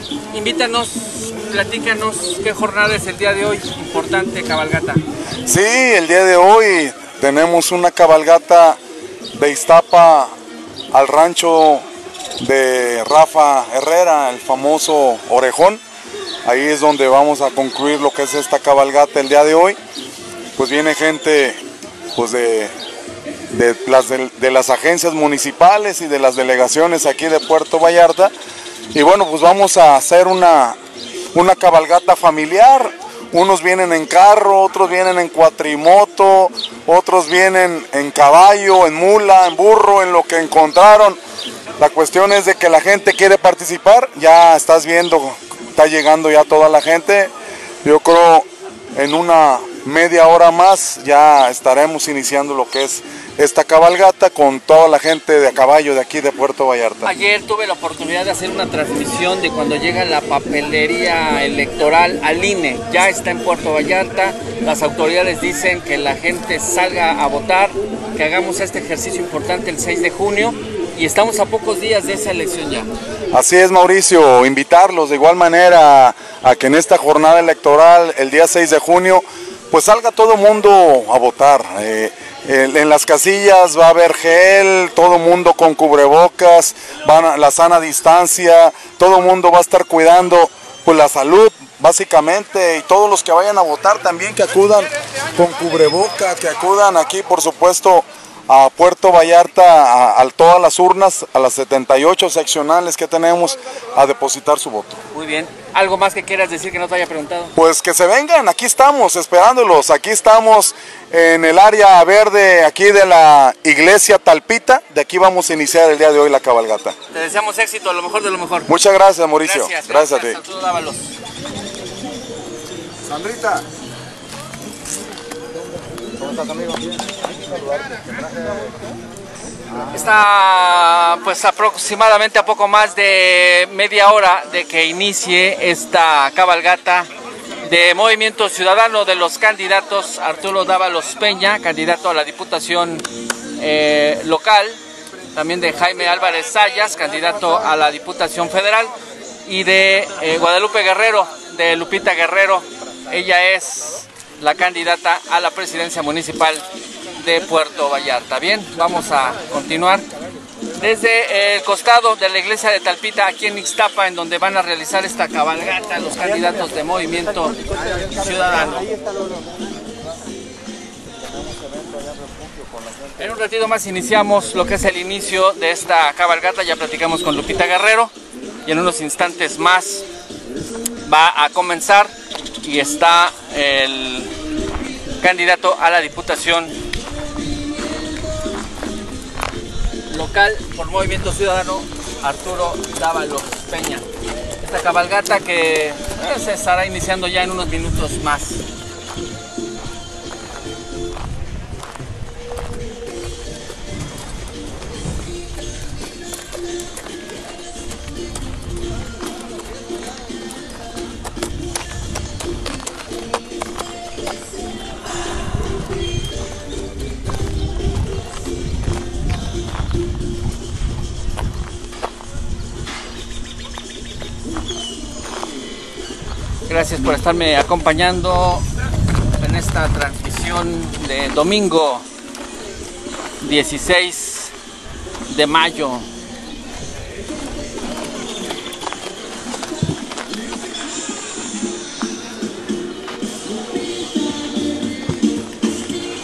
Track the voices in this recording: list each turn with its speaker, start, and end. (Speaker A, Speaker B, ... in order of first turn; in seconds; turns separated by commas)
Speaker A: 0.3-5.0, Speaker B: 5.5-8.8, Speaker B: 9.4-10.3, Speaker B: 10.9-11.8, Speaker B: 12.4-15.8, Speaker B: 16.4-19.8, Speaker B: 20.6-21.6, Speaker B: 22.1-22.7, Speaker B: 23.5-28.3, Speaker B: 28.9-30.8, Speaker B: 31.3-41.2, Speaker B: 41.8-47.3, Speaker B: 47.8-57.1, Speaker A: 57.0-72.9, Speaker B: 73.3-105.0, Speaker A: 105.1-107.5, Speaker B: 107.6-116.9, Speaker A: 117.1-118.7, Speaker B: 118.7-120.4, Speaker A: 119.4-121.1, Speaker B: 123.1-123.6, Speaker A: 129.9-137.1, Speaker A: 137.6-143.1, Speaker A: 143.6-144.8, Speaker A: 145.3-148.9, Speaker A: 149.4-160.1, Speaker A: 160.8-168.9, Speaker A: 173.2-178.1, Speaker A: 178.6-180.1, Speaker A: 181.0-184.3, Speaker A: 185.2-186.8, Speaker A: 190.1-194.0, Speaker A: 194.6-198.6, Speaker A: 226.7-228.7, Speaker A: 229.4-232.1, Speaker A: 233.4-234.5, Speaker A: 235.3-236.1